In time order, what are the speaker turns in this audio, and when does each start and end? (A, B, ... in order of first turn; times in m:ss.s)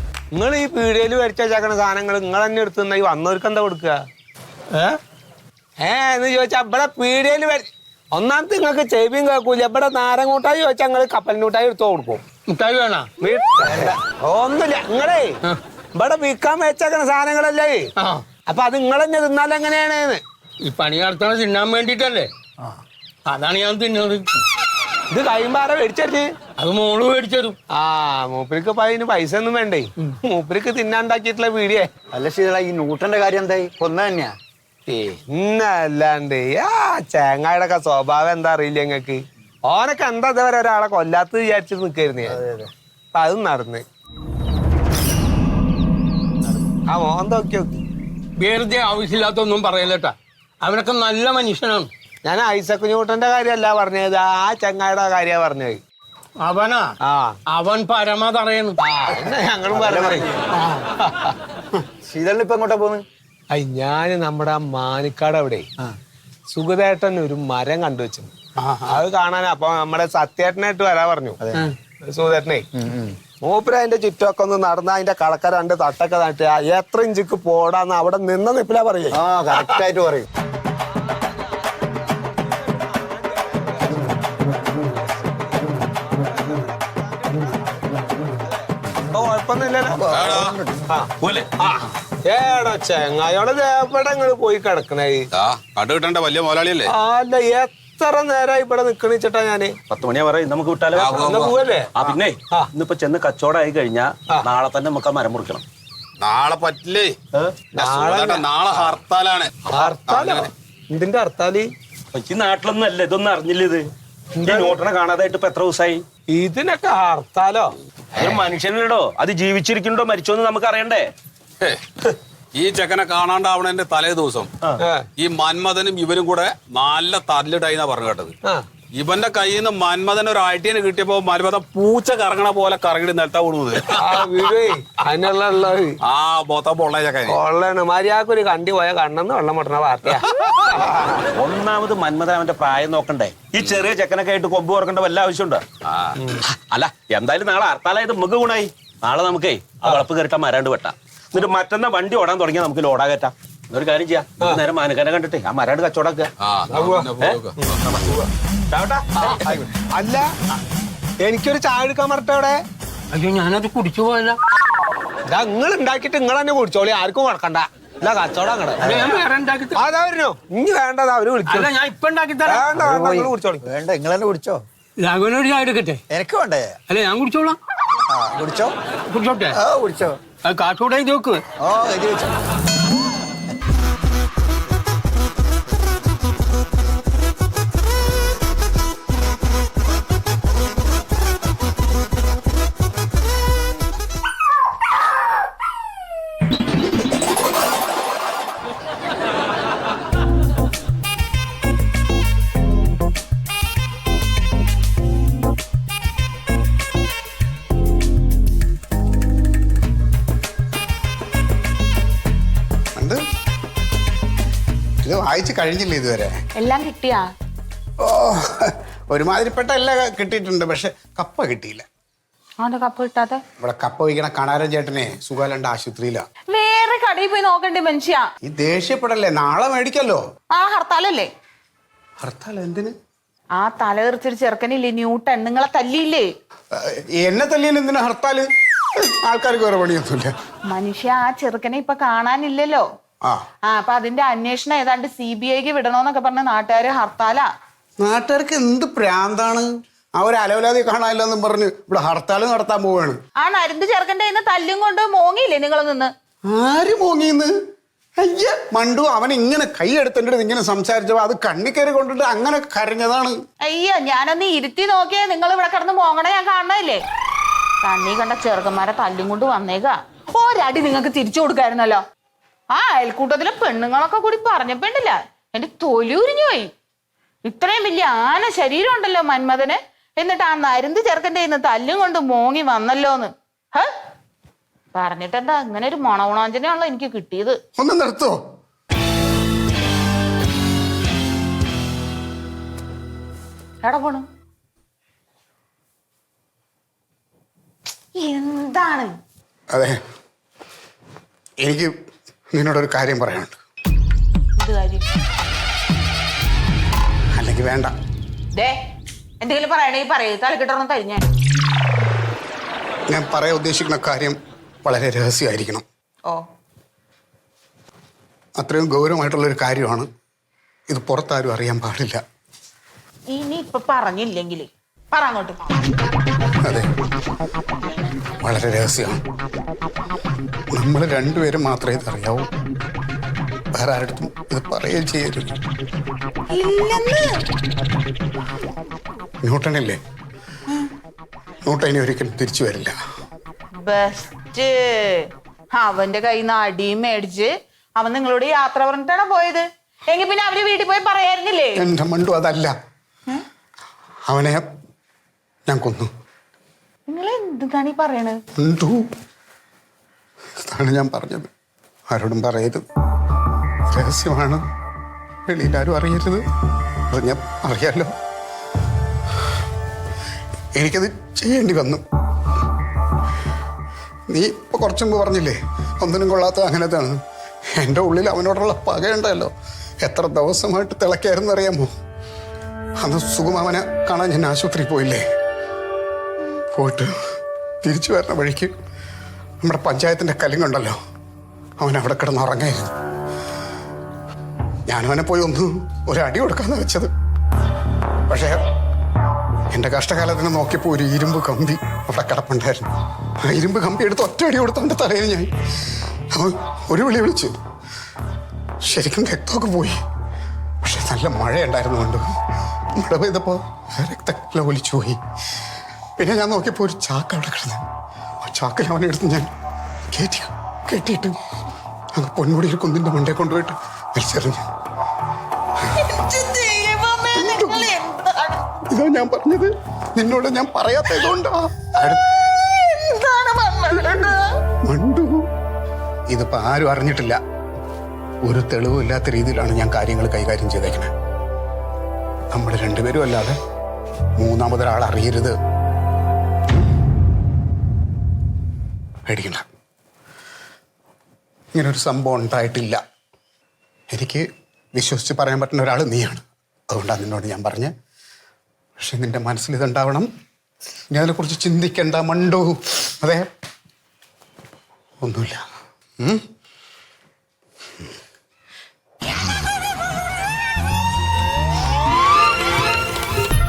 0:00.3-0:04.0 A
0:05.8-0:12.2 A
0:12.5-0:13.1 B
0:13.2-0:15.4 A
0:15.9-0:20.2 A
0:18.0-0:18.2 B
0:20.6-0:22.3 B
0:23.3-0:24.4 B
0:25.1-0:26.3 A
0:26.6-0:27.6 B
0:27.7-0:31.9 A
0:32.1-0:34.3 C
0:34.9-0:42.4 A
0:42.4-0:42.7 C
0:43.1-0:43.8 A
0:46.8-0:47.8 A
0:48.4-0:51.9 B
0:52.2-0:55.8 A
0:56.4-0:56.9 B
0:57.0-0:57.4 A
0:57.5-0:58.8 B
0:58.8-1:00.2 A
0:59.8-1:00.1 C
1:01.0-1:01.3 A
1:02.1-1:03.0 C
1:03.5-1:05.6 A
1:06.5-1:08.3 A
1:08.8-1:11.4 A
1:12.0-1:12.6 A
1:12.8-1:13.1 C
1:13.4-1:19.8 A
1:19.1-1:20.3 C
1:22.8-1:23.8 A
1:25.0-1:25.4 A
1:26.0-1:27.7 A
1:29.0-1:30.1 A
1:30.0-1:30.6 D
1:30.0-1:30.6 C
1:30.9-1:35.3 A
1:31.2-1:31.5 E
1:35.3-1:36.9 D
1:36.8-1:39.7 A
1:39.9-1:45.6 E
1:40.9-1:41.5 D
1:41.1-1:42.7 A
1:46.2-1:47.2 D
1:47.3-1:47.6 E
1:47.7-1:48.5 A
1:47.8-1:50.5 D
1:49.7-1:51.7 A
1:52.1-1:53.8 E
1:54.4-1:54.8 A
1:54.4-1:56.0 E
1:56.3-1:57.7 A
1:58.1-2:01.0 E
2:02.5-2:04.5 D
2:04.8-2:05.0 A
2:05.2-2:08.3 D
2:08.9-2:14.5 D
2:13.9-2:16.0 A
2:16.0-2:17.4 D
2:17.2-2:21.0 A
2:21.4-2:25.6 E
2:25.8-2:26.1 D
2:26.5-2:36.3 E
2:36.4-2:37.9 D
2:36.7-2:38.2 A
2:38.7-2:39.6 E
2:39.2-2:40.3 A
2:41.2-2:42.6 A
2:43.1-2:44.4 B
2:45.3-2:49.0 A
2:48.8-2:49.8 B
2:49.7-2:51.7 A
2:51.5-2:52.6 B
2:52.4-2:53.6 A
2:52.8-2:54.6 C
2:55.0-2:56.0 B
2:56.1-2:56.8 C
2:56.9-2:57.6 B
2:58.1-2:58.7 C
2:59.1-2:59.6 B
2:59.6-3:00.2 C
3:00.4-3:01.4 B
3:01.6-3:02.3 C
3:33.0-3:33.2 F
3:35.0-3:36.4 F
3:36.6-3:37.3 G
3:38.0-3:41.8 F
3:42.6-3:43.4 G
3:43.6-3:46.2 F
3:46.5-3:48.3 G
3:48.4-3:50.2 F
3:50.5-3:51.3 G
3:52.2-3:52.9 F
3:53.6-3:56.3 G
3:56.7-3:58.4 F
3:59.0-4:00.3 F
4:00.7-4:02.8 G
4:03.7-4:07.5 G
4:08.0-4:13.2 F
4:13.4-4:16.1 G
4:16.5-4:17.5 F
4:18.2-4:23.4 F
4:23.6-4:27.0 G
4:27.8-4:32.0 G
4:32.7-4:36.7 G
4:37.4-4:43.9 G
4:44.9-4:47.6 G
4:47.8-4:48.4 F
4:53.8-4:54.2 G
4:58.2-4:59.1 G
4:59.7-5:00.0 F
5:01.6-5:01.9 F
5:02.5-5:03.6 F
5:04.6-5:05.0 G
5:07.3-5:07.9 F
5:09.4-5:11.2 G
5:13.1-5:15.8 F
5:18.6-5:20.1 F
5:20.9-5:22.2 F
5:23.3-5:25.7 G
5:26.6-5:26.9 F
5:28.4-5:29.2 F
5:30.7-5:32.5 F
5:33.7-5:35.5 F
5:36.5-5:37.4 G
5:39.4-5:40.0 F
5:41.6-5:43.0 F
5:43.8-5:51.8 G
5:51.8-5:52.7 F
5:54.3-5:54.6 F
5:55.7-5:56.1 F
5:57.1-5:58.4 G
5:58.6-5:59.0 F
6:00.6-6:01.5 F
6:02.1-6:02.8 F
6:03.9-6:04.6 F
6:05.4-6:06.4 F
6:07.1-6:08.1 F
6:10.7-6:12.0 F
6:14.3-6:17.2 F
6:17.8-6:21.9 F
6:23.0-6:25.2 F
6:26.7-6:27.1 F
6:27.8-6:28.7 F
6:29.6-6:31.0 F
6:31.8-6:32.9 F
6:34.9-6:37.1 F
6:38.3-6:38.6 F
6:39.7-6:42.9 F
6:43.4-6:45.5 F
6:46.3-6:47.6 F
6:48.8-6:50.0 F
6:50.8-6:52.4 F
6:52.9-6:55.2 F
6:56.2-6:57.8 F
6:58.4-6:59.5 F
7:00.1-7:01.4 F
7:02.1-7:04.6 F
7:06.0-7:08.6 G
7:07.3-7:07.9 F
7:08.9-7:12.2 F
7:12.5-7:14.4 G
7:14.8-7:15.4 F
7:16.3-7:17.4 F
7:18.4-7:21.1 F
7:22.5-7:23.6 F
7:24.4-7:25.5 F
7:29.3-7:29.6 F
7:31.7-7:33.0 F
7:34.1-7:37.9 F
7:39.0-7:40.3 F
7:41.1-7:43.5 F
7:45.2-7:45.6 F